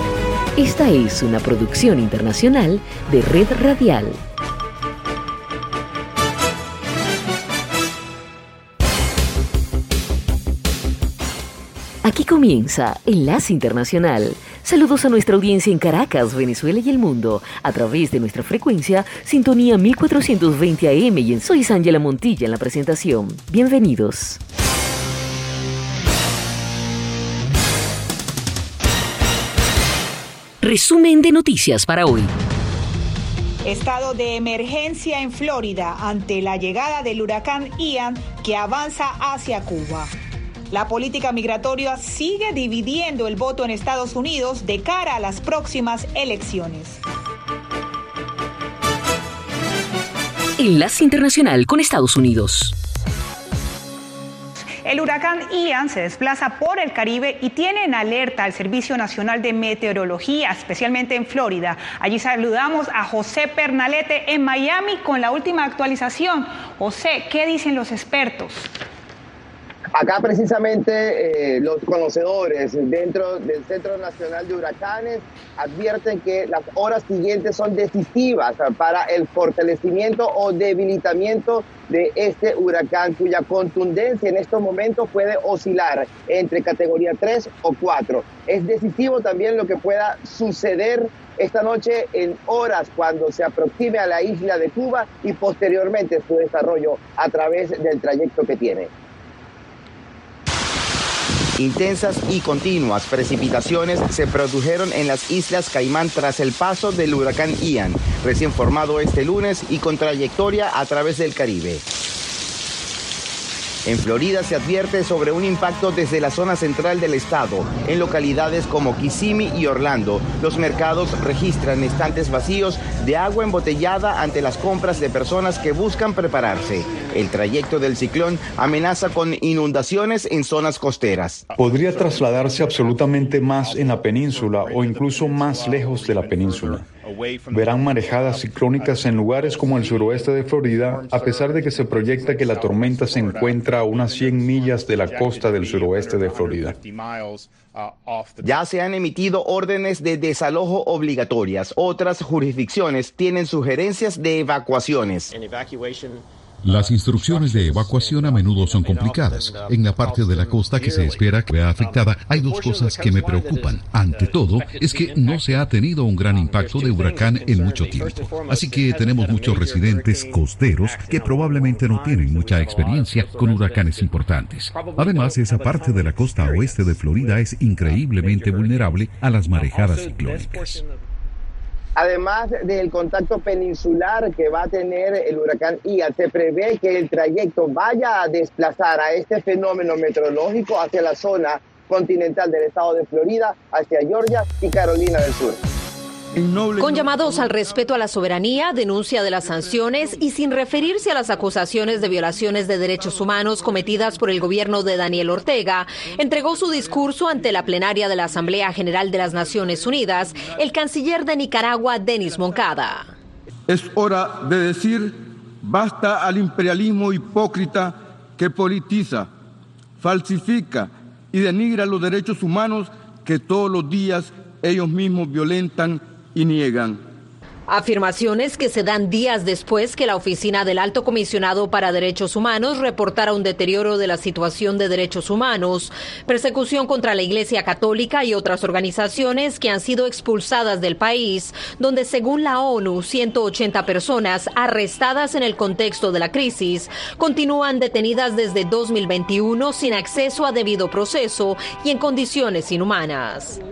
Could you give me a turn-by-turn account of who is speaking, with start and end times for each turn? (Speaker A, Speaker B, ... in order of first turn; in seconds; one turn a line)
Speaker A: 0.6-4.2
Speaker A: 12.0-24.4
Speaker A: 30.6-32.3
Speaker B: 33.6-40.1
Speaker B: 40.7-47.0
Speaker A: 50.6-52.8
Speaker B: 54.8-68.7
Speaker C: 70.0-98.9
Speaker D: 101.6-111.8
Speaker D: 113.8-131.4
Speaker E: 131.5-148.4
Speaker F: 143.2-143.9
Speaker F: 145.9-146.7
Speaker D: 148.4-155.3
Speaker E: 155.3-156.2
Speaker G: 156.6-180.8
Speaker E: 156.8-165.7
Speaker E: 166.3-174.1
Speaker E: 174.7-178.8
Speaker E: 179.6-181.0
Speaker C: 182.0-195.6
Speaker F: 196.4-196.8
Speaker H: 196.8-213.1
Speaker F: 213.7-219.3
Speaker F: 220.0-227.0
Speaker H: 227.7-253.6